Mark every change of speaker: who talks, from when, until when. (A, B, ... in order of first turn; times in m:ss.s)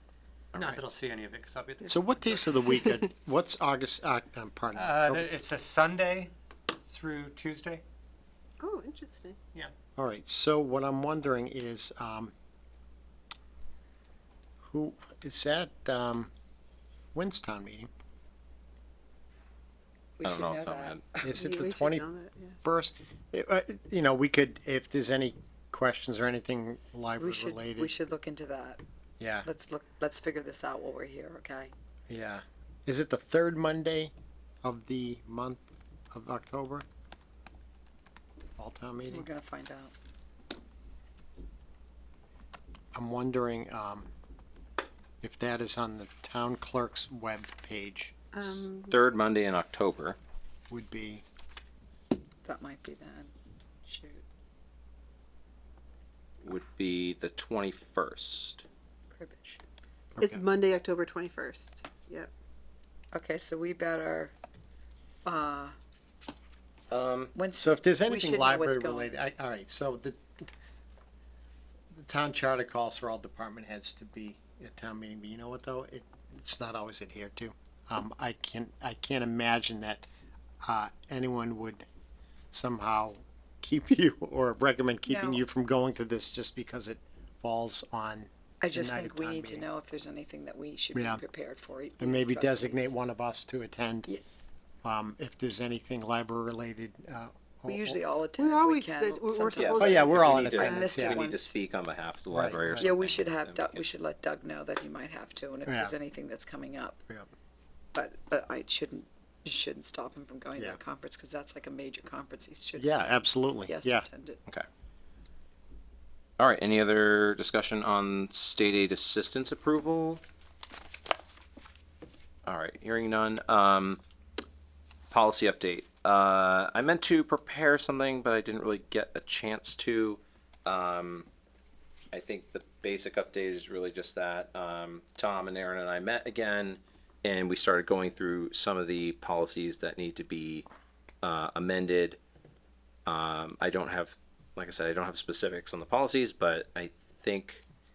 0:00.5-0:00.8 A
0:00.6-0:02.5 B
0:01.9-0:05.3 C
0:02.5-0:03.1 D
0:04.7-0:07.8 B
0:08.6-0:09.4 D
0:10.0-0:12.3 C
0:14.6-0:16.3 C
0:17.1-0:17.9 C
0:20.2-0:21.3 E
0:20.2-0:21.0 A
0:21.2-0:22.0 C
0:21.2-0:22.6 D
0:22.6-0:27.9 C
0:27.2-0:28.8 E
0:29.2-0:29.5 C
0:29.4-0:31.7 E
0:32.1-0:36.9 C
0:38.6-0:39.3 C
0:39.1-0:39.9 E
0:42.9-0:44.1 C
0:45.2-0:48.2 C
0:48.4-0:49.0 D
0:48.9-0:50.2 A
0:50.7-0:51.2 C
0:52.4-0:53.3 E
0:53.9-0:54.2 E
0:56.4-0:58.6 A
0:59.1-0:59.6 E
1:00.2-1:00.4 C
1:00.2-1:02.3 D
1:03.1-1:04.3 E
1:05.2-1:05.8 E
1:06.9-1:07.3 A
1:07.4-1:09.1 E
1:07.6-1:10.4 C
1:11.9-1:20.1 C
1:20.6-1:21.9 C
1:22.5-1:29.7 C
1:25.1-1:25.4 E
1:28.6-1:32.9 E
1:30.9-1:31.2 C
1:32.0-1:34.1 C
1:34.8-1:38.0 C
1:37.7-1:41.5 E
1:38.4-1:41.0 D
1:39.6-1:43.9 A
1:39.8-1:41.2 C
1:42.3-1:42.9 C
1:42.8-1:47.0 E
1:45.7-1:46.0 C
1:47.9-1:53.0 E
1:52.8-1:54.1 C
1:53.7-1:54.4 E
1:56.4-2:00.2 A
2:02.4-2:04.0 A
2:05.1-2:11.3 A
2:12.1-2:20.7 A
2:21.2-2:22.2 A
2:23.1-2:27.6 A